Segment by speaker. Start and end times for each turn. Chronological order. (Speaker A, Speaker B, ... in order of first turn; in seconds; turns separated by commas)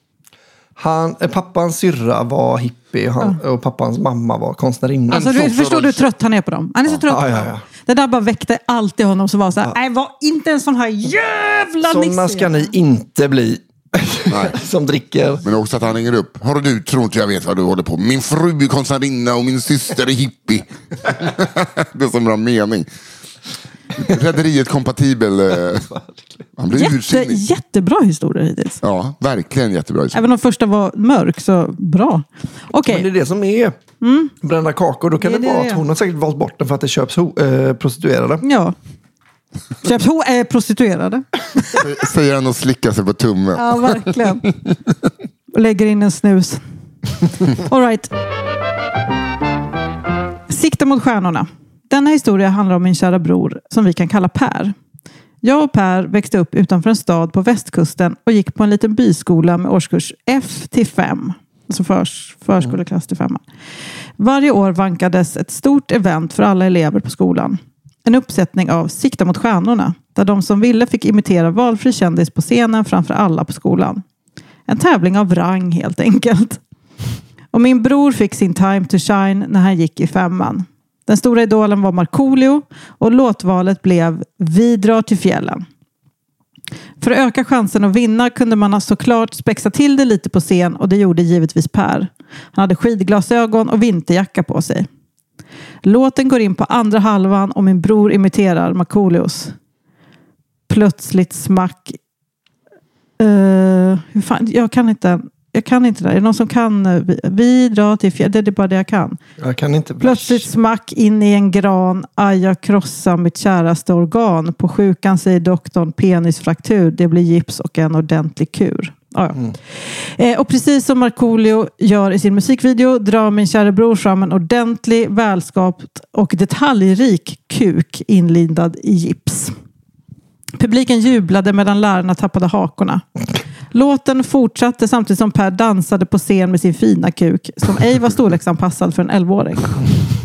Speaker A: 0.8-5.5, Speaker B: 5.1-6.1, Speaker C: 5.1-12.7, Speaker A: 7.1-7.6, Speaker A: 11.8-15.4, Speaker B: 14.3-14.6, Speaker B: 15.4-22.9, Speaker B: 24.0-25.9, Speaker A: 25.9-26.4, Speaker B: 26.6-27.4, Speaker C: 26.7-28.8, Speaker B: 28.8-30.2, Speaker C: 30.1-33.1, Speaker A: 32.8-33.8, Speaker C: 34.0-34.3, Speaker A: 34.4-38.4, Speaker C: 35.2-35.8, Speaker C: 38.4-38.8, Speaker C: 39.8-41.8, Speaker B: 41.8-44.5, Speaker C: 43.5-44.5, Speaker C: 45.5-46.6, Speaker C: 47.5-48.1, Speaker C: 50.5-54.7, Speaker C: 55.4-63.4, Speaker C: 64.2-74.0, Speaker C: 74.7-76.6, Speaker C: 77.5-85.7, Speaker C: 87.0-94.9, Speaker C: 95.8-99.5, Speaker C: 100.7-102.0, Speaker C: 103.2-109.2, Speaker A: 109.4-110.5, Speaker C: 110.0-129.5, Speaker C: 130.6-133.0, Speaker C: 133.7-139.9